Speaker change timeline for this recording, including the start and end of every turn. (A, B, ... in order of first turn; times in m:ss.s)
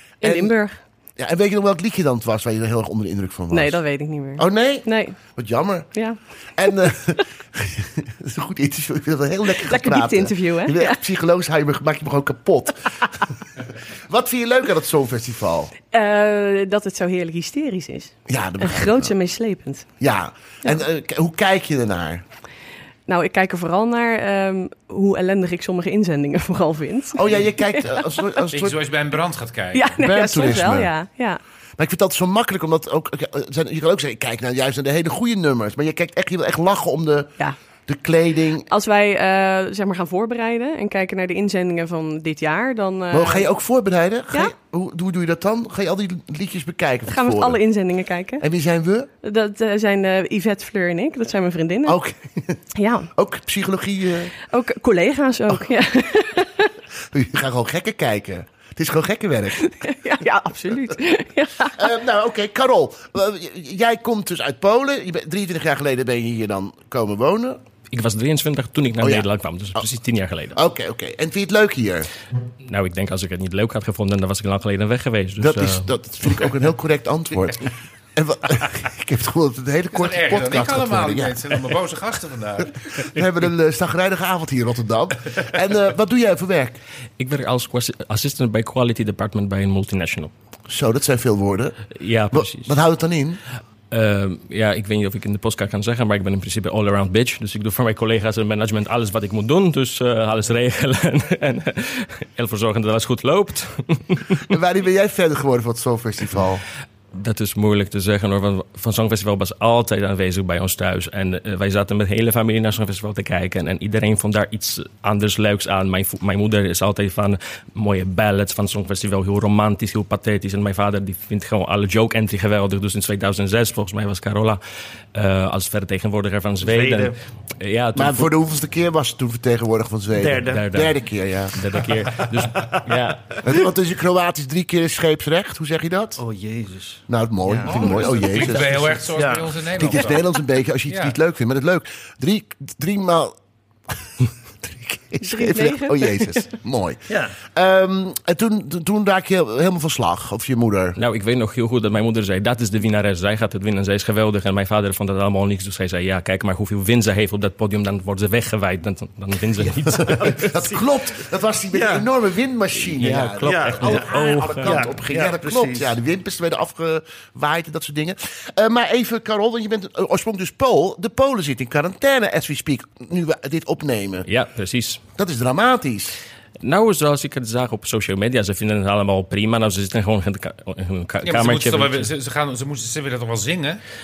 0:00.2-0:00.5 A
0:00.2-0:00.8 B
0:01.2-0:03.8 A
0:03.5-0:05.2 B
0:04.4-0:05.9 A
0:05.9-0:06.2 B
0:06.6-0:13.2 A
0:09.6-0:11.0 B
0:14.1-0:15.7 A
0:15.9-0:19.9 B
0:18.3-0:19.1 A
0:20.0-0:22.2 A
0:23.1-0:27.2 B
0:27.2-0:28.8 A
0:28.5-0:30.0 C
0:29.7-0:31.4 B
0:30.0-0:30.9 A
0:31.8-0:37.3 A
0:37.9-0:38.7 A
0:38.7-0:43.5 B
0:43.1-0:47.6 A
0:47.1-0:48.4 B
0:48.4-0:49.1 A
0:49.2-0:52.0 B
0:51.9-0:52.6 A
0:52.8-0:53.1 B
0:53.1-0:54.3 A
0:54.5-0:56.7 B
0:57.1-0:59.7 A
0:59.6-1:01.9 B
1:01.8-1:07.6 A
1:07.9-1:10.6 D
1:09.0-1:09.3 A
1:10.5-1:12.1 A
1:12.7-1:15.9 D
1:15.4-1:21.4 A
1:19.9-1:22.9 C
1:23.1-1:26.8 A
1:27.2-1:30.3 D
1:30.7-1:33.4 A
1:32.0-1:32.7 D
1:33.9-1:44.4 D
1:44.5-1:46.6 A
1:47.1-2:04.6 D
2:05.1-2:08.3 D
2:06.6-2:07.1 E
2:08.0-2:11.6 A
2:10.2-2:10.7 E
2:10.5-2:10.9 D
2:11.5-2:13.3 D
2:11.8-2:12.8 E
2:13.4-2:16.2 A
2:16.2-2:20.0 E
2:17.1-2:19.0 A
2:17.7-2:20.3 C
2:19.7-2:23.4 A
2:20.9-2:21.2 C
2:24.2-2:31.0 A
2:25.2-2:26.4 B
2:27.1-2:27.4 E
2:31.0-2:40.5 D
2:40.0-2:54.3 A
2:40.1-2:40.8 E
2:41.7-2:42.1 E
2:42.9-2:44.9 D
2:43.4-2:46.0 E
2:54.3-2:55.0 D
2:55.2-2:56.2 A
2:56.6-3:02.1 D
3:01.2-3:03.8 C